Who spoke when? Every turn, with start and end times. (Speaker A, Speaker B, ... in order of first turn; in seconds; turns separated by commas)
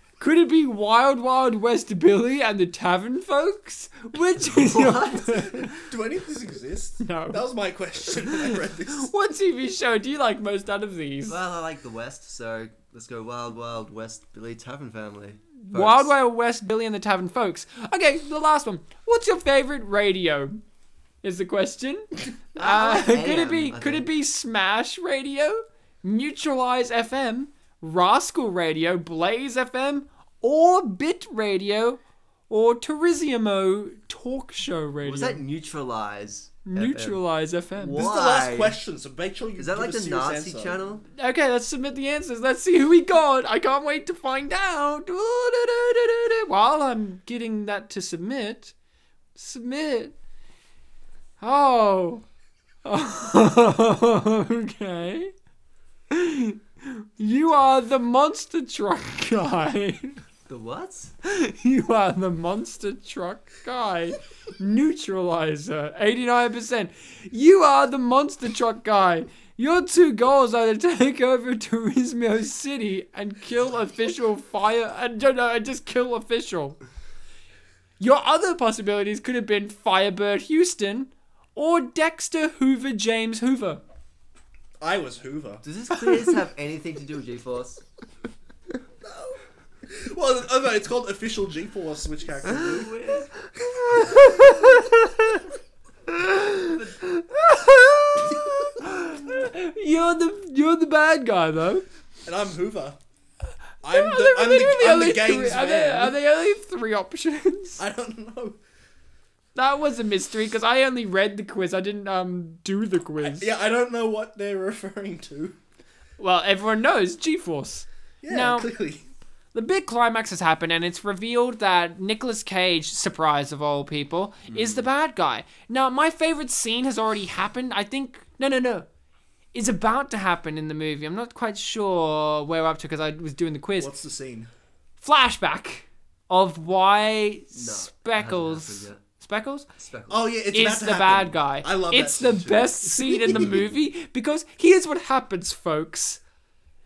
Speaker A: 0.2-5.8, Speaker B: 4.4-5.7, Speaker C: 5.7-9.1, Speaker A: 7.0-7.4, Speaker A: 8.2-11.4, Speaker B: 11.3-16.1, Speaker A: 15.6-20.6, Speaker A: 21.2-35.4, Speaker B: 22.6-24.1, Speaker B: 35.0-37.2, Speaker A: 36.6-38.0, Speaker B: 37.8-38.8, Speaker C: 37.9-40.8, Speaker B: 39.6-41.0, Speaker A: 41.1-48.7, Speaker A: 49.3-50.1, Speaker A: 51.4-52.2, Speaker A: 52.8-55.3, Speaker A: 56.1-60.2, Speaker B: 60.5-61.1, Speaker A: 61.2-76.8, Speaker A: 78.0-83.8, Speaker C: 84.8-85.6, Speaker B: 85.6-87.8, Speaker C: 89.9-93.2, Speaker B: 92.4-93.3, Speaker A: 93.5-95.5, Speaker A: 96.1-101.8, Speaker B: 96.7-97.0, Speaker C: 102.2-103.0, Speaker C: 103.8-106.2, Speaker A: 103.9-107.8, Speaker C: 107.8-108.6, Speaker A: 109.5-113.5, Speaker C: 113.2-115.6, Speaker A: 116.2-118.7, Speaker C: 118.2-119.0, Speaker A: 119.5-128.8, Speaker B: 124.5-124.8, Speaker A: 129.5-133.9, Speaker C: 133.8-134.5, Speaker A: 135.0-139.7, Speaker B: 137.5-139.0, Speaker B: 139.7-140.3, Speaker C: 140.1-143.6, Speaker A: 140.5-146.2